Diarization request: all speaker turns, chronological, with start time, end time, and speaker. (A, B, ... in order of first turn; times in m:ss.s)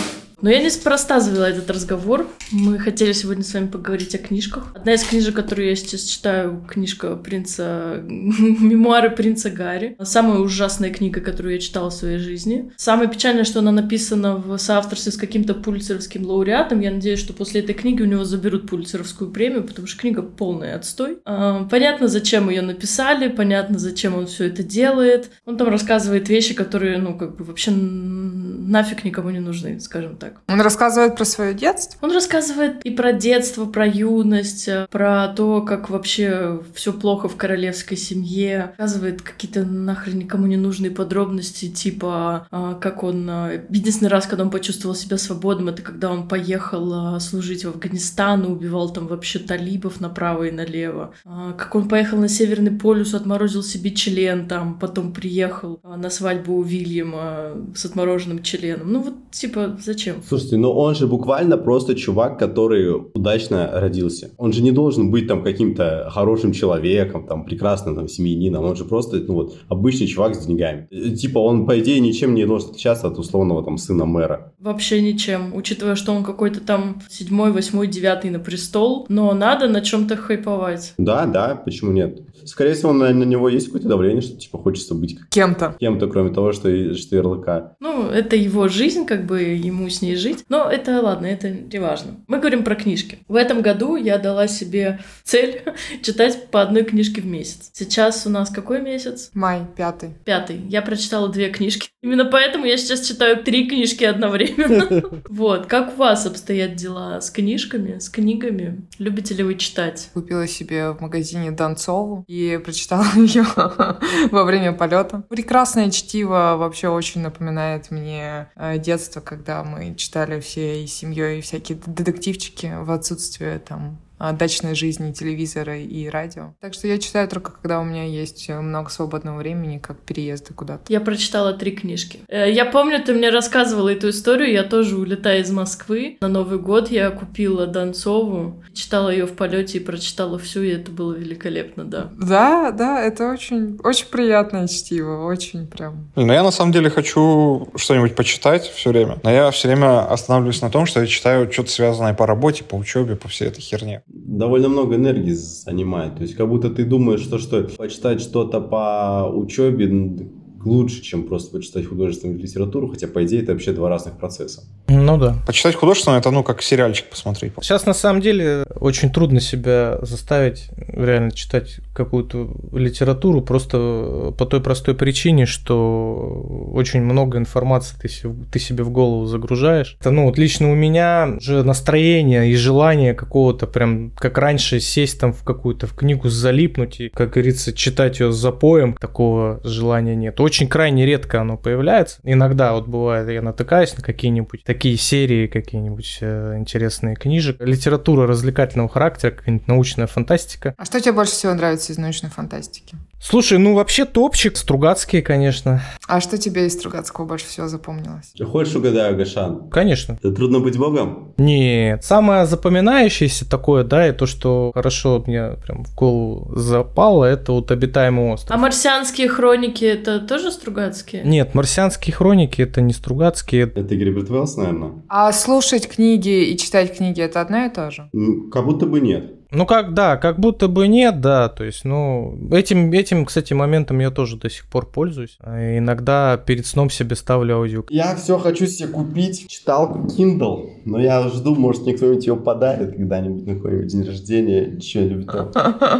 0:00.4-0:30.4 A
0:30.5-0:31.9 B
0:32.0-1:00.2 A
1:00.3-1:14.5 C
1:14.6-1:20.9 A
1:21.0-1:27.7 C
1:25.3-1:25.8 B
1:27.8-1:39.3 A
1:39.3-1:40.2 B
1:40.2-1:50.1 A
1:50.1-2:10.8 B
2:10.9-2:22.1 A
2:22.1-2:26.1 B
2:26.2-2:34.0 D
2:34.1-2:44.7 C
2:44.9-2:45.4 E
2:45.4-2:47.6 D
2:47.6-3:20.8 E
3:20.8-3:23.0 B
3:23.2-3:25.8 E
3:26.1-3:28.3 B
3:28.4-3:31.3 C
3:29.7-3:30.2 E
3:31.4-3:38.6 E
3:38.5-3:41.3 A
3:41.2-3:43.7 E
3:43.7-3:45.0 C
3:45.1-3:48.1 B
3:48.1-3:49.3 C
3:49.5-3:57.9 E
3:57.9-4:05.7 C